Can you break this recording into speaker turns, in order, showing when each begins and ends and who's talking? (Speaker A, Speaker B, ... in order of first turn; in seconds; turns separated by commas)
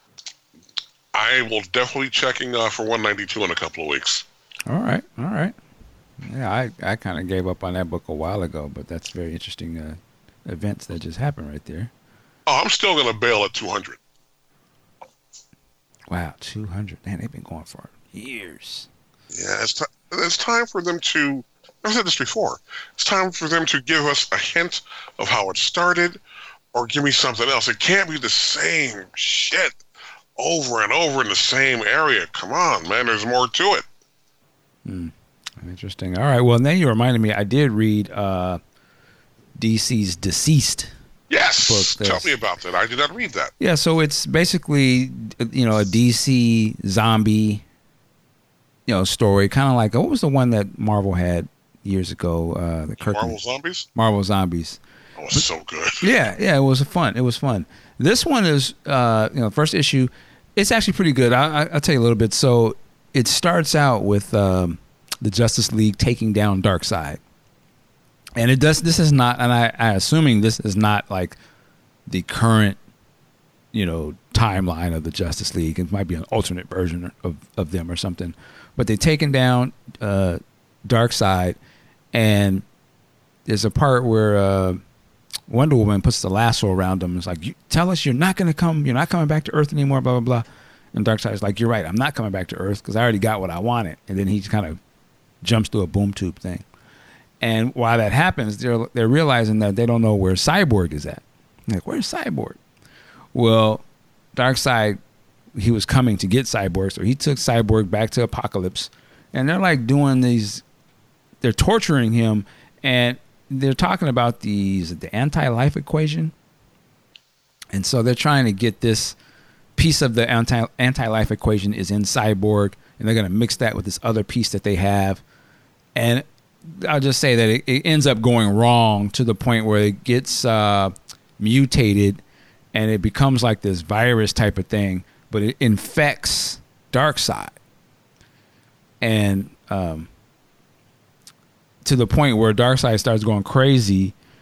Speaker A: 1.1-4.2, Speaker B: 4.7-5.5, Speaker B: 6.2-11.9, Speaker A: 12.5-14.0, Speaker B: 16.1-18.9, Speaker A: 19.3-26.2, Speaker A: 26.7-29.8, Speaker A: 30.4-33.9, Speaker B: 34.9-38.6, Speaker B: 39.6-40.9, Speaker A: 41.3-43.5, Speaker B: 41.6-42.3, Speaker B: 43.6-47.6, Speaker B: 48.9-53.4, Speaker A: 53.0-53.9, Speaker B: 54.0-54.8, Speaker A: 55.2-56.1, Speaker B: 56.0-67.2, Speaker B: 68.4-71.4, Speaker B: 72.1-72.8, Speaker B: 73.7-81.6, Speaker B: 82.1-82.7, Speaker B: 83.5-84.8, Speaker B: 85.5-94.8, Speaker B: 95.4-96.7, Speaker B: 97.4-102.6, Speaker B: 103.3-103.8, Speaker B: 104.4-105.0, Speaker B: 105.5-110.6, Speaker B: 111.4-116.3, Speaker B: 117.7-119.2, Speaker B: 119.8-125.2, Speaker B: 126.0-132.2, Speaker B: 132.7-137.6, Speaker B: 139.0-140.1, Speaker B: 141.8-144.2